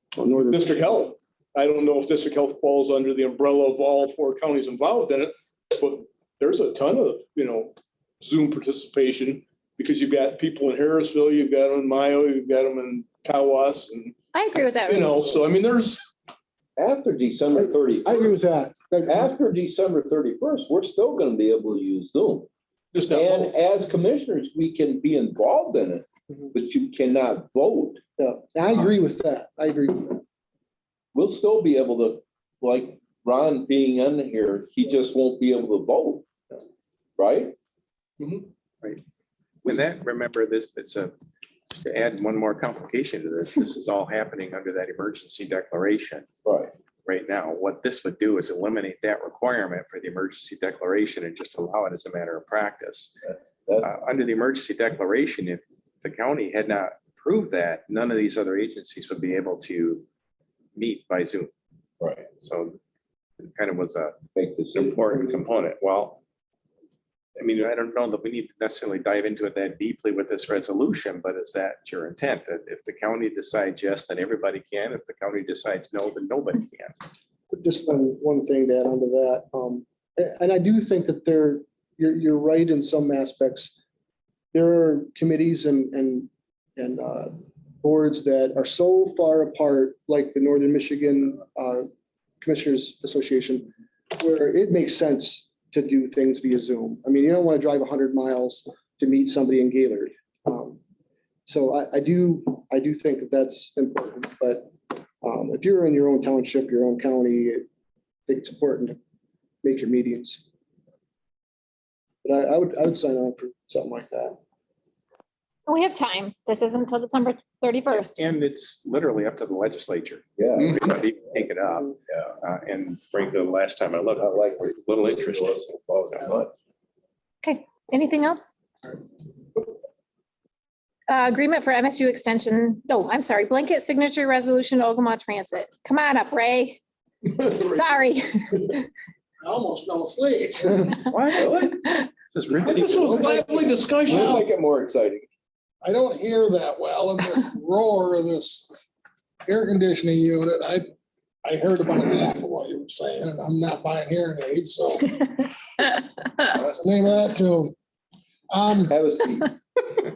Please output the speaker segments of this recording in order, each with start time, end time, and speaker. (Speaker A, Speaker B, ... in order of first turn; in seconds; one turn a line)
Speaker A: 0.2-0.9
Speaker B: 0.5-14.2
Speaker C: 14.3-15.1
Speaker B: 14.9-16.0
Speaker D: 16.8-18.3
Speaker A: 17.5-19.3
Speaker D: 19.0-22.5
Speaker B: 22.9-23.5
Speaker D: 23.1-28.0
Speaker A: 28.2-30.2
Speaker D: 31.1-36.3
Speaker D: 37.2-37.5
Speaker E: 39.6-41.1
Speaker E: 41.7-46.3
Speaker D: 46.5-46.7
Speaker E: 47.0-53.2
Speaker D: 53.3-53.9
Speaker E: 53.8-60.0
Speaker E: 60.8-61.5
Speaker D: 62.0-62.3
Speaker E: 62.3-62.8
Speaker E: 63.4-64.2
Speaker D: 64.4-65.2
Speaker E: 64.7-66.2
Speaker E: 67.4-77.0
Speaker A: 77.5-83.7
Speaker A: 84.5-91.9
Speaker A: 92.4-100.8
Speaker A: 101.5-107.7
Speaker A: 108.3-109.0
Speaker A: 109.6-110.4
Speaker A: 112.2-114.4
Speaker C: 115.7-118.2
Speaker E: 117.9-126.2
Speaker D: 120.4-121.0
Speaker D: 124.2-126.5
Speaker C: 127.4-128.5
Speaker C: 131.1-136.8
Speaker B: 137.4-137.8
Speaker C: 137.6-138.9
Speaker F: 139.4-141.0
Speaker E: 141.0-141.8
Speaker D: 141.4-141.8
Speaker E: 142.3-143.3
Speaker D: 142.6-145.3
Speaker B: 142.7-144.3
Speaker F: 144.1-144.5
Speaker F: 145.8-148.7
Speaker F: 149.5-150.9
Speaker F: 151.4-155.4
Speaker F: 156.6-157.8
Speaker F: 158.5-158.9
Speaker D: 158.9-159.6